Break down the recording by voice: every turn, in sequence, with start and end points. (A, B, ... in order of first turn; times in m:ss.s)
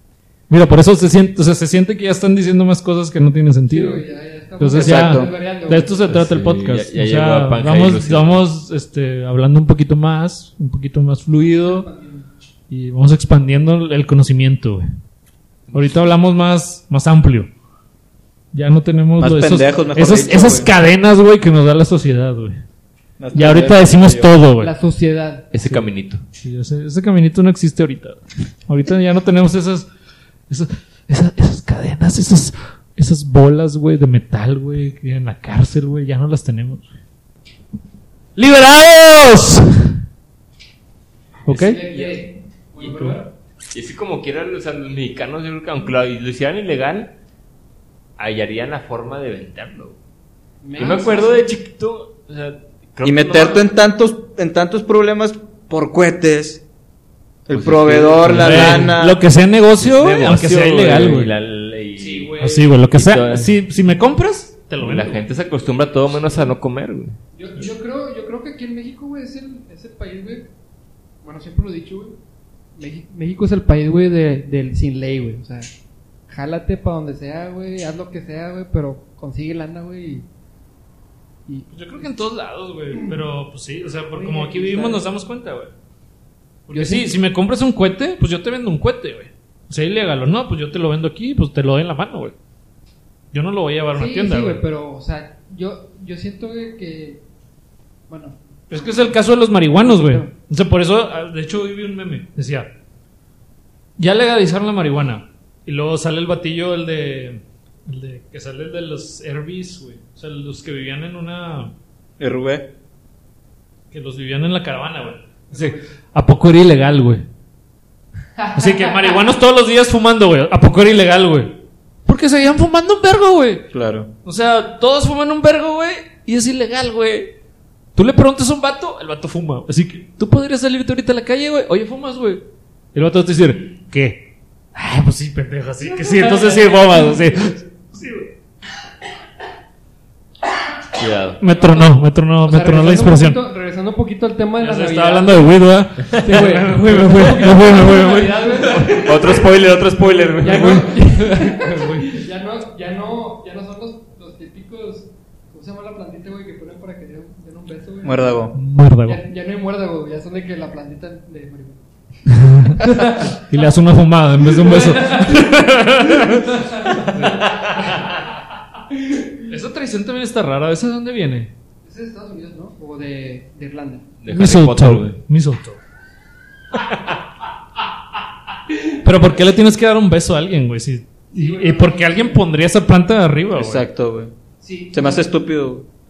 0:00.5-0:04.0 A
0:03.7-0:06.1 B
0:04.6-0:11.9 A
0:04.7-0:05.3 C
0:06.1-0:08.4 D
0:11.4-0:12.3 B
0:12.7-0:14.9 A
0:15.7-0:16.1 D
0:15.7-0:17.5 A
0:18.5-0:22.6 A
0:19.2-0:20.7 C
0:23.2-0:24.3 C
0:23.3-0:24.7 A
0:24.6-0:25.7 B
0:25.5-0:26.2 D
0:26.4-0:29.9 A
0:30.5-0:36.9 A
0:38.4-0:40.0 A
0:41.5-0:41.8 A
0:41.5-0:42.2 D
0:41.5-0:43.3 B
0:42.9-0:43.1 A
0:43.7-0:47.1 D
0:48.2-0:50.0 D
0:50.6-0:51.4 B
0:50.8-0:53.7 D
0:53.0-0:56.6 C
0:57.5-0:59.2 C
0:57.5-0:59.0 D
0:58.3-1:01.3 A
0:59.8-1:02.4 D
1:02.0-1:02.7 B
1:02.4-1:05.2 A
1:02.9-1:03.6 D
1:04.8-1:07.2 D
1:07.3-1:10.5 B
1:11.2-1:12.2 B
1:12.8-1:15.7 B
1:16.3-1:20.3 B
1:21.5-1:22.1 B
1:21.7-1:25.7 A
1:24.1-1:25.1 B
1:26.7-1:32.4 A
1:26.7-1:27.1 B
1:33.3-1:34.6 A
1:34.0-1:37.2 B
1:38.1-1:39.2 B
1:38.7-1:42.7 A
1:39.8-1:40.3 B
1:44.0-1:51.7 A
1:52.2-1:52.7 C
1:53.9-1:57.2 A
1:55.5-1:55.8 B
1:58.4-1:59.2 B
1:58.6-2:03.7 A
2:03.7-2:04.1 C
2:04.2-2:07.4 A
2:08.0-2:18.3 A
2:16.1-2:16.9 B
2:21.0-2:21.4 D
2:21.4-2:23.4 A
2:21.5-2:21.9 B
2:22.4-2:38.5 B
2:24.6-2:29.1 A
2:28.7-2:30.9 D
2:30.5-2:32.2 A
2:38.0-2:38.6 C
2:38.6-2:39.2 A
2:39.0-2:41.8 B
2:42.3-2:47.5 A
2:42.8-2:43.4 B
2:44.5-2:45.5 B
2:46.5-2:47.2 B
2:49.5-2:51.5 A
2:51.8-2:54.0 B
2:54.2-2:55.2 D
2:54.3-2:55.8 A
2:58.9-3:03.8 A
3:01.3-3:02.5 B
3:03.5-3:04.3 C
3:04.6-3:05.3 B
3:04.9-3:05.9 C